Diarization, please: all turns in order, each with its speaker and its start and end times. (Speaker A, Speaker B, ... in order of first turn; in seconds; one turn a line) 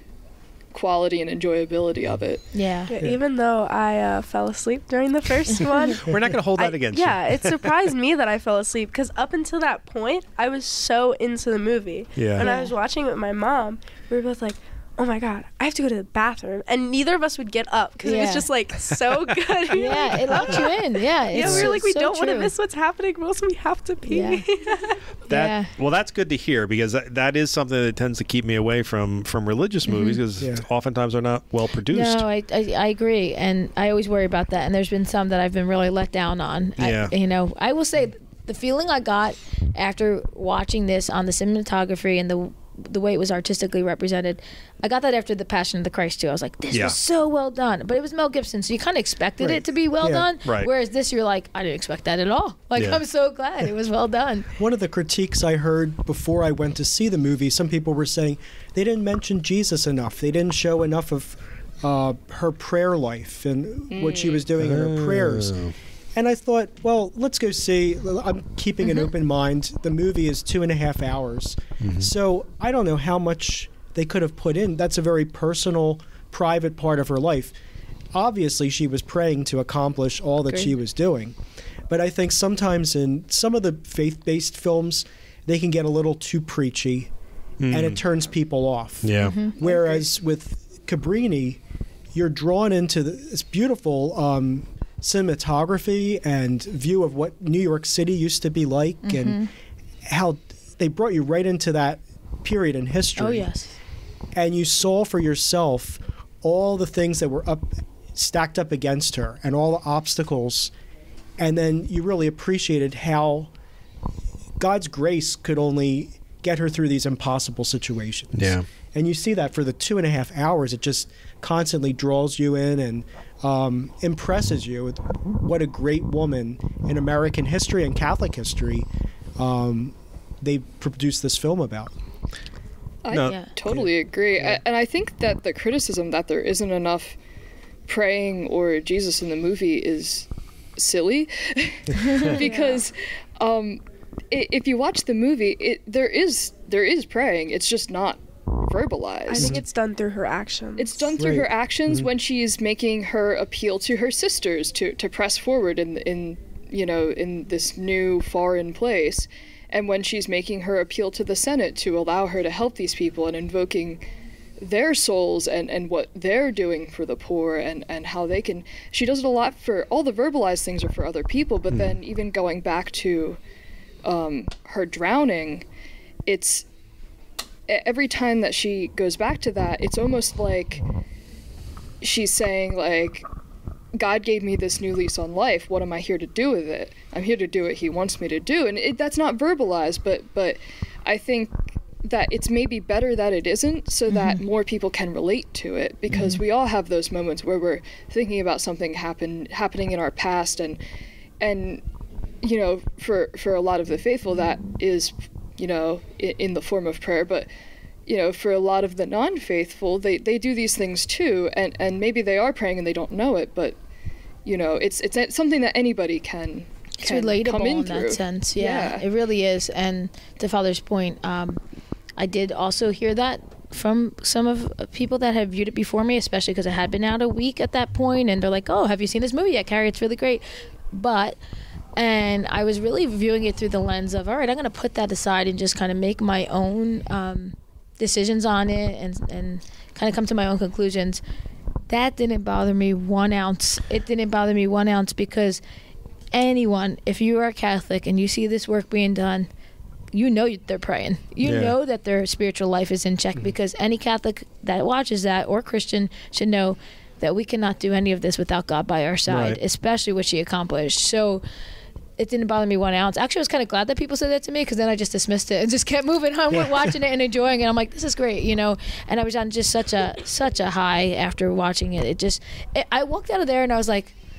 Speaker A: 0.7-2.5
Speaker B: 2.5-2.9
Speaker C: 2.9-25.0
Speaker D: 6.0-7.7
Speaker D: 12.2-12.5
Speaker B: 12.4-12.7
Speaker B: 18.0-18.5
Speaker D: 19.0-19.7
Speaker B: 19.7-22.5
Speaker B: 24.1-24.4
Speaker D: 25.3-32.2
Speaker B: 25.3-25.7
Speaker B: 29.9-30.2
Speaker E: 30.4-30.6
Speaker B: 31.9-54.5
Speaker D: 36.8-37.1
Speaker E: 49.4-50.3
Speaker D: 50.4-50.7
Speaker E: 54.5-65.6
Speaker A: 63.9-64.5
Speaker D: 64.6-65.7
Speaker E: 66.1-77.5
Speaker D: 71.8-72.1
Speaker E: 78.1-81.3
Speaker E: 81.9-87.1
Speaker D: 87.6-88.0
Speaker E: 87.7-91.6
Speaker D: 89.0-89.4
Speaker B: 89.2-89.6
Speaker C: 89.6-89.9
Speaker E: 92.1-99.4
Speaker B: 99.0-99.5
Speaker E: 100.0-103.5
Speaker B: 103.2-103.7
Speaker E: 104.3-110.7
Speaker E: 111.4-113.5
Speaker E: 114.6-131.9
Speaker D: 118.3-118.6
Speaker A: 133.0-137.1
Speaker D: 133.1-133.3
Speaker B: 133.2-133.5
Speaker A: 137.9-149.6
Speaker B: 141.9-142.8
Speaker C: 149.3-151.2
Speaker A: 150.8-164.0
Speaker E: 151.2-151.5
Speaker A: 164.6-173.4
Speaker D: 171.7-171.9
Speaker A: 174.0-175.6
Speaker A: 176.3-176.7
Speaker A: 177.7-180.8
Speaker A: 182.0-183.2
Speaker A: 183.9-200.8
Speaker B: 194.1-194.4
Speaker B: 196.1-196.4
Speaker A: 201.4-201.8
Speaker A: 202.4-207.5
Speaker A: 208.1-213.8
Speaker A: 214.4-219.0
Speaker B: 217.0-221.6
Speaker B: 222.2-231.4
Speaker B: 231.9-241.2
Speaker B: 241.9-245.6
Speaker B: 246.3-249.5
Speaker B: 250.1-261.4
Speaker D: 251.4-251.7
Speaker D: 259.3-259.6
Speaker B: 262.2-274.1